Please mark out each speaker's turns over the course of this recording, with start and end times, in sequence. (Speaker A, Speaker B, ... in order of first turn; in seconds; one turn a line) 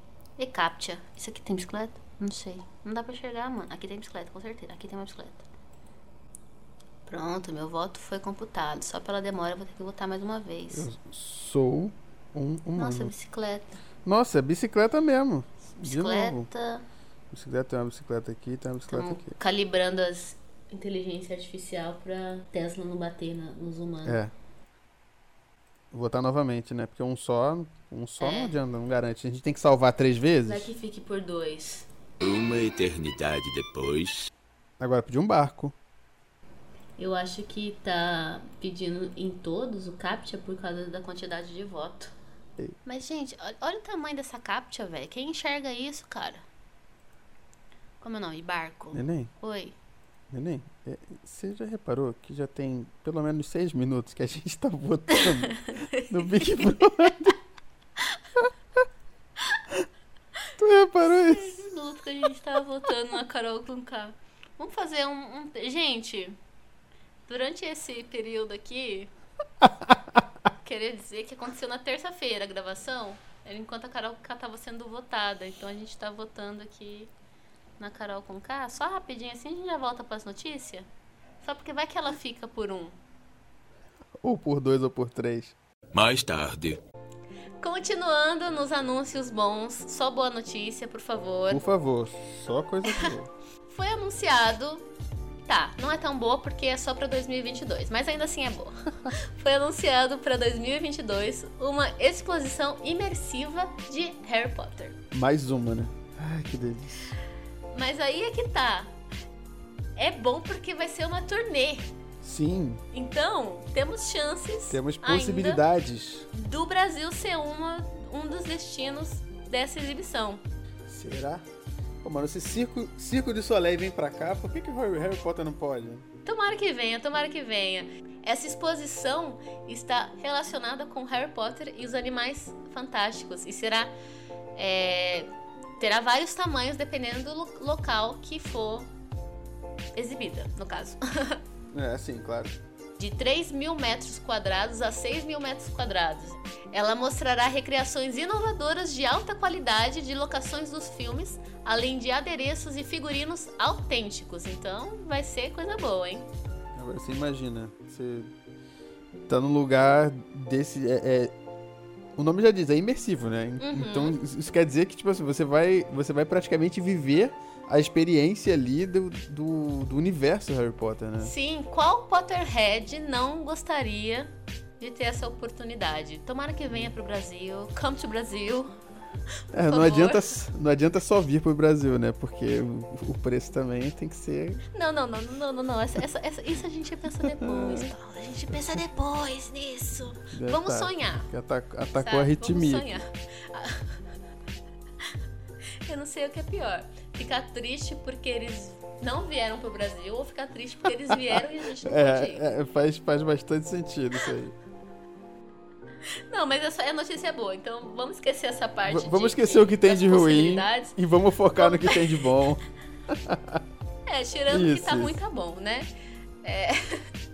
Speaker A: 0.4-5.4
Speaker A: 7.0-10.9
Speaker B: 10.7-13.1
Speaker A: 12.8-13.8
Speaker B: 14.0-16.5
Speaker A: 15.8-16.8
Speaker B: 17.3-19.4
Speaker A: 18.9-24.2
Speaker B: 24.0-24.3
Speaker B: 25.9-30.7
Speaker A: 28.2-28.6
Speaker A: 30.4-31.9
Speaker C: 32.2-34.3
Speaker B: 34.8-35.7
Speaker A: 37.0-42.1
Speaker A: 42.8-46.5
Speaker A: 48.0-49.8
Speaker B: 48.9-49.3
Speaker B: 50.3-57.4
Speaker A: 55.1-57.1
Speaker B: 60.6-61.6
Speaker A: 61.0-66.4
Speaker A: 67.3-69.1
Speaker A: 70.6-77.1
Speaker A: 77.8-80.9
Speaker A: 81.4-83.0
Speaker B: 84.2-85.6
Speaker C: 85.9-86.8
Speaker A: 87.6-91.6
Speaker B: 91.5-93.3
Speaker A: 93.7-94.8
Speaker A: 95.5-105.0
Speaker B: 105.1-107.1
Speaker A: 107.7-108.9
Speaker A: 110.0-111.9
Speaker B: 112.2-112.8
Speaker A: 112.9-115.6
Speaker B: 114.7-116.3
Speaker A: 116.3-120.4
Speaker B: 120.9-121.4
Speaker B: 122.0-126.0
Speaker A: 126.2-133.9
Speaker A: 134.5-138.9
Speaker A: 139.9-141.4
Speaker B: 141.7-142.6
Speaker A: 143.0-156.3
Speaker B: 156.8-158.3
Speaker B: 159.3-161.3
Speaker B: 162.2-171.3
Speaker A: 163.6-164.2
Speaker A: 171.2-178.7
Speaker B: 179.5-184.6
Speaker A: 179.6-180.4
Speaker A: 184.7-191.3
Speaker B: 187.4-187.9
Speaker B: 188.5-188.8
Speaker B: 190.3-193.0
Speaker A: 192.0-194.0
Speaker A: 195.8-202.4
Speaker B: 201.8-204.5
Speaker A: 206.1-210.9
Speaker B: 208.8-213.6
Speaker A: 211.6-212.2
Speaker A: 214.1-215.9
Speaker B: 214.5-215.2
Speaker A: 216.4-217.1